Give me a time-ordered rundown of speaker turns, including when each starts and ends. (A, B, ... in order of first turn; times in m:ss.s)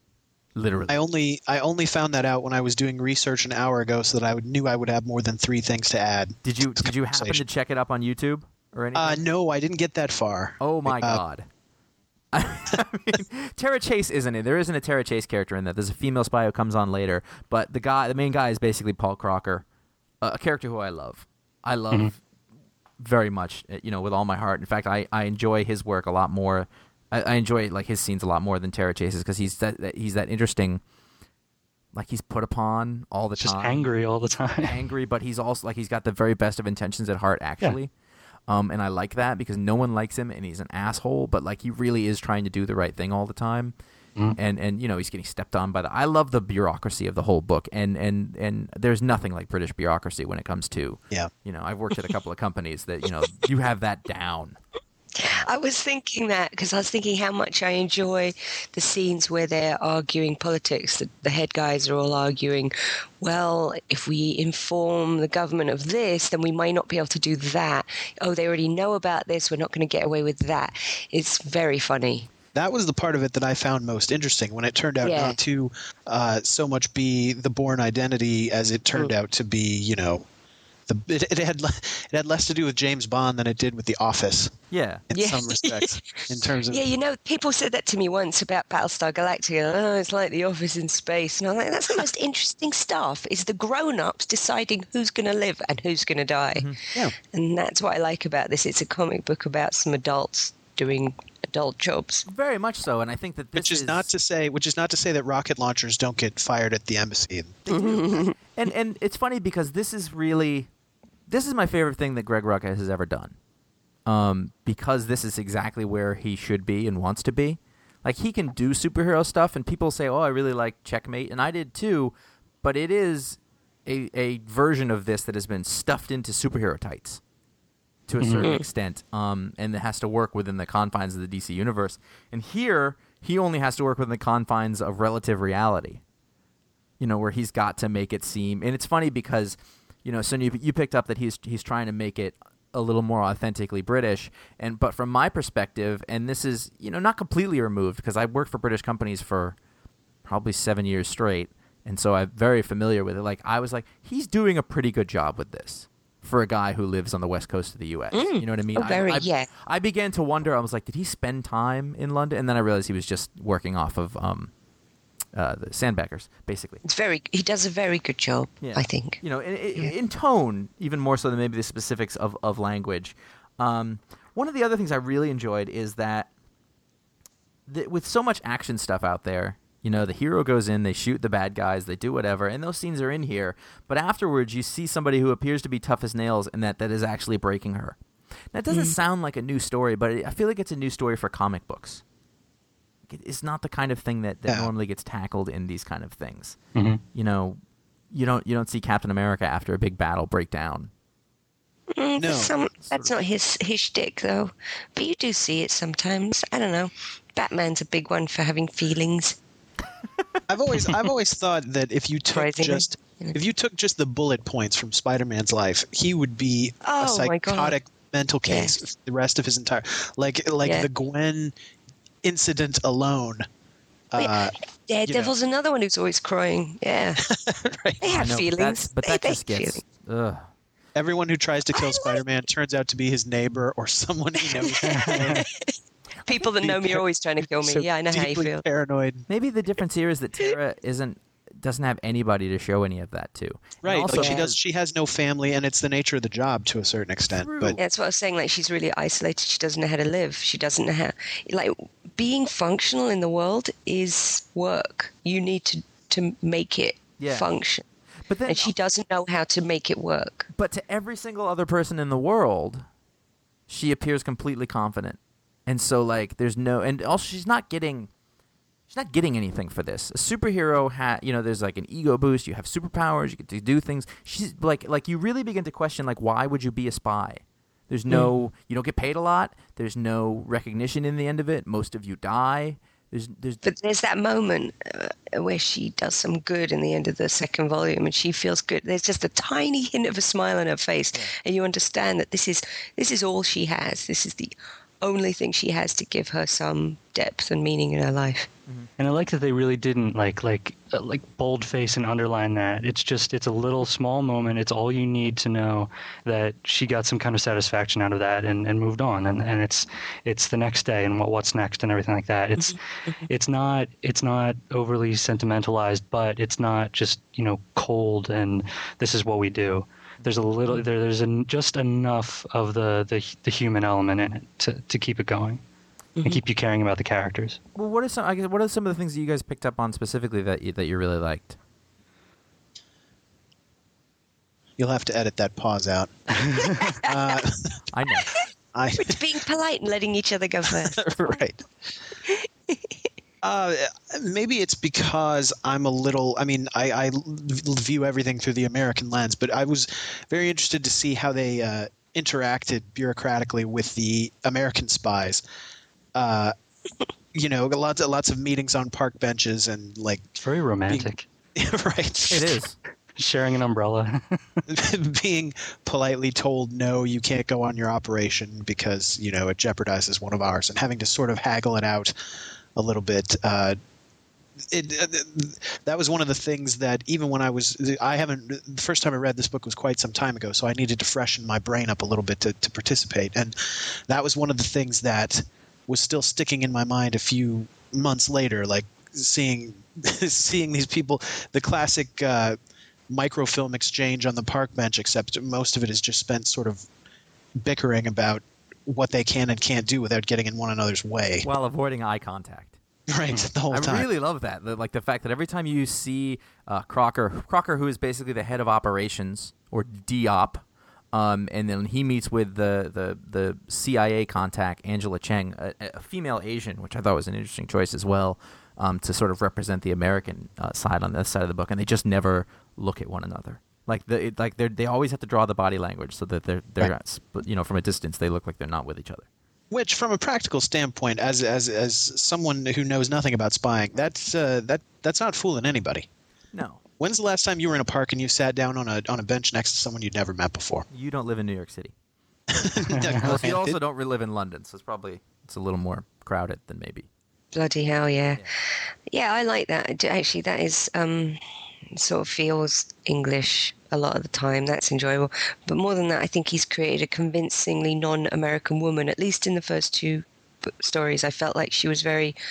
0:00.6-0:01.0 A
0:00.9-0:07.4 B
0:06.4-0:09.2 A
0:09.0-0:11.2 B
0:10.6-0:11.4 A
0:12.3-0:19.6 A
0:20.2-0:22.2 A
0:23.0-0:30.8 A
0:31.9-0:33.9 A
0:33.4-0:34.8 C
0:34.6-0:37.9 A
0:38.5-0:43.7 A
0:44.4-0:54.6 A
0:55.2-1:12.3 D
1:12.5-1:20.2 B
1:15.0-1:15.4 D
1:20.9-1:24.5 B
1:24.7-1:25.0 A
1:25.1-1:26.9 B
1:25.1-1:42.2 D
1:42.3-1:44.1 A
1:43.6-1:47.7 B
1:47.7-1:50.7 A
1:47.7-1:48.3 D
1:51.3-1:53.3 A
1:54.0-2:07.2 A
2:08.1-2:16.0 A
2:08.2-2:08.5 C
2:17.0-2:29.6 A
2:30.2-2:44.5 A
2:38.1-2:39.5 D
2:45.3-2:46.8 A
2:46.8-2:49.2 D
2:48.6-2:56.3 A
2:57.7-3:08.0 A
3:08.5-3:12.0 A
3:08.7-3:09.0 D
3:13.1-3:16.6 A
3:16.7-3:17.0 C
3:17.1-3:17.6 A
3:18.1-3:20.9 A
3:21.9-3:29.4 D
3:22.2-3:22.5 B
3:22.8-3:23.1 A
3:30.5-3:41.5 B
3:32.3-3:33.4 D
3:36.8-3:37.8 D
3:38.4-3:38.8 D
3:40.6-3:40.9 D
3:42.2-3:43.4 B
3:44.1-3:44.5 B
3:44.2-3:47.2 D
3:45.0-3:45.3 B
3:47.2-3:48.2 B
3:48.0-3:49.8 D
3:48.1-3:50.5 A
3:50.9-3:55.4 B
3:51.8-3:52.2 D
3:54.4-3:55.7 D
3:54.9-3:55.4 C
3:56.2-3:58.6 D
3:56.3-3:59.2 B
3:59.3-4:04.5 A
4:03.8-4:07.8 B
4:04.1-4:04.5 D
4:07.3-4:07.8 A
4:07.8-4:17.8 D
4:17.2-4:17.5 A
4:18.3-4:18.7 A
4:18.5-4:20.5 D
4:20.5-4:22.8 A
4:23.7-4:28.1 A
4:28.9-4:43.6 A
4:43.6-4:58.5 D
4:59.0-5:25.6 C
5:12.6-5:13.2 D
5:20.2-5:20.8 A
5:26.2-5:26.4 D
5:26.2-5:27.6 C
5:27.8-5:31.6 A
5:34.8-5:37.7 B
5:36.6-5:37.4 D
5:37.9-5:38.3 A
5:38.3-5:41.4 D
5:38.7-5:39.2 B
5:41.0-5:41.6 B
5:42.2-5:42.9 D
5:43.4-5:55.4 B
5:56.1-5:56.5 B
5:57.3-6:00.3 B
6:00.4-6:01.2 C
6:00.9-6:02.6 B
6:02.3-6:02.8 A
6:03.1-6:04.6 C
6:04.7-6:12.1 B
6:12.7-6:13.8 B
6:14.7-6:32.6 B
6:33.1-6:36.8 B
6:37.6-6:41.5 B
6:41.4-6:42.8 A
6:43.1-6:44.1 B
6:43.7-7:09.3 A
7:09.7-7:16.1 B
7:16.5-7:16.8 A
7:17.0-7:20.8 B
7:20.9-7:21.9 A
7:22.5-7:23.8 B
7:22.9-7:23.4 C
7:23.2-7:27.1 A
7:27.5-7:31.4 D
7:31.9-7:42.4 D